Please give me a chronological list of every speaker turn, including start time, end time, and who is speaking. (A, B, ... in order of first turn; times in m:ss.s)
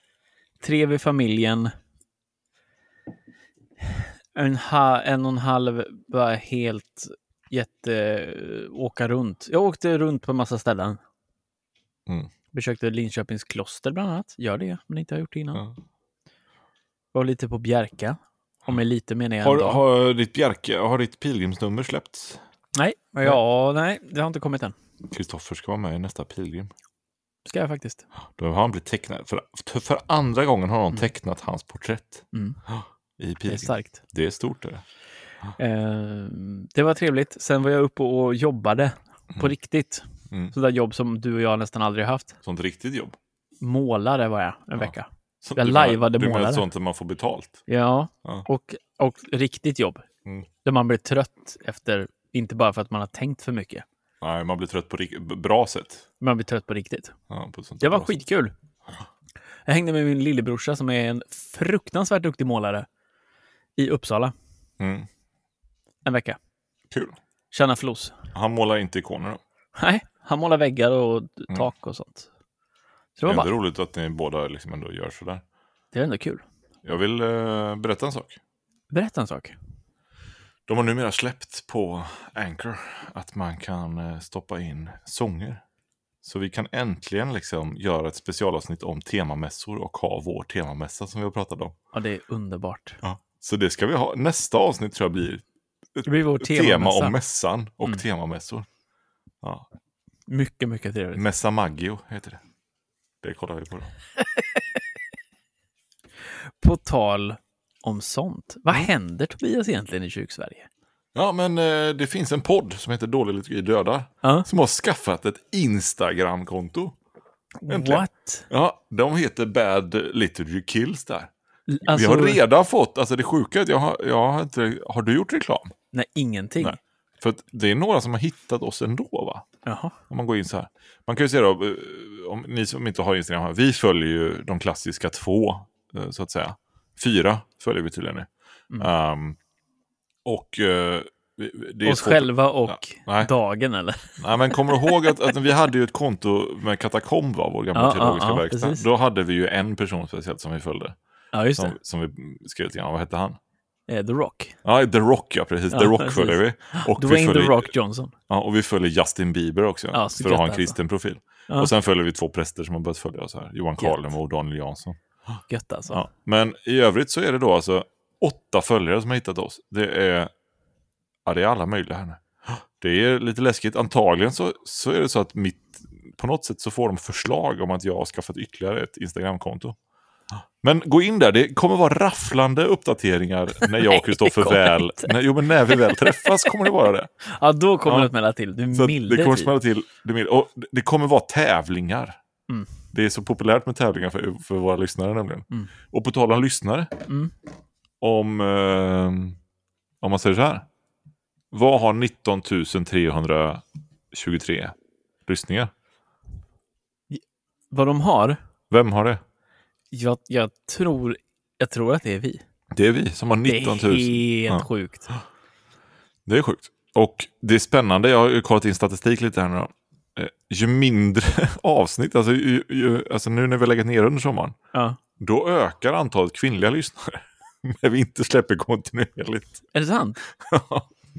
0:00.6-0:01.7 A
0:03.8-0:11.0 A
0:12.5-0:15.6 A
0:17.1-0:19.8 A
0:19.4-0:22.4 B
0:22.8-0:24.8 A
0:25.1-0:26.7 B
0:27.4-0:28.0 A
0:28.2-0:34.8 B
0:32.3-0:32.6 A
0:33.5-0:34.0 A
0:35.6-0:42.4 A
0:42.4-0:43.2 B
0:43.6-0:46.6 A
0:44.8-0:47.6 B
0:47.7-0:50.1 A
0:50.6-0:53.8 A
0:54.2-0:56.1 B
0:56.2-0:57.2 A
0:57.3-0:58.1 B
0:57.8-0:58.5 A
0:59.6-1:02.9 A
1:03.8-1:04.3 A
1:04.8-1:05.1 B
1:06.0-1:06.4 A
1:06.9-1:07.2 B
1:07.5-1:08.2 A
1:08.3-1:09.4 B
1:09.8-1:12.3 A
1:13.2-1:13.5 A
1:13.3-1:15.4 B
1:15.9-1:16.4 A
1:16.8-1:18.4 B
1:18.9-1:19.6 A
1:20.7-1:25.6 B
1:26.2-1:31.8 B
1:31.9-1:33.0 A
1:33.0-1:35.4 B
1:36.0-1:38.7 B
1:36.1-1:37.2 A
1:40.3-1:41.2 A
1:41.2-1:42.4 B
1:43.2-1:43.9 B
1:46.3-1:50.7 A
1:51.2-1:57.0 B
1:57.6-1:58.4 A
1:57.7-2:01.3 B
2:01.7-2:02.4 A
2:01.8-2:05.7 B
2:05.9-2:06.8 A
2:06.6-2:09.5 B
2:09.7-2:10.0 A
2:10.1-2:19.4 B
2:20.2-2:23.3 B
2:21.8-2:25.1 A
2:24.2-2:31.0 B
2:27.8-2:28.8 A
2:31.3-2:31.8 A
2:31.6-2:33.4 B
2:33.9-2:34.6 A
2:34.6-2:37.7 B
2:35.7-2:38.1 A
2:38.3-2:45.0 B
2:39.9-2:40.8 A
2:45.5-2:46.0 A
2:45.9-2:50.3 B
2:51.3-2:59.8 B
3:00.6-3:07.1 B
3:03.6-3:05.1 A
3:05.8-3:06.5 A
3:07.2-3:09.5 A
3:08.7-3:12.2 B
3:12.9-3:17.0 B
3:18.0-3:19.4 B
3:20.0-3:20.7 B
3:21.5-3:25.7 B
3:27.1-3:28.4 A
3:28.7-3:29.2 B
3:29.9-3:32.4 A
3:32.7-3:35.2 B
3:33.4-3:35.1 A
3:36.3-3:44.6 B
3:44.7-3:45.0 A
3:45.2-3:49.6 B
3:49.7-3:50.2 A
3:50.3-3:50.9 B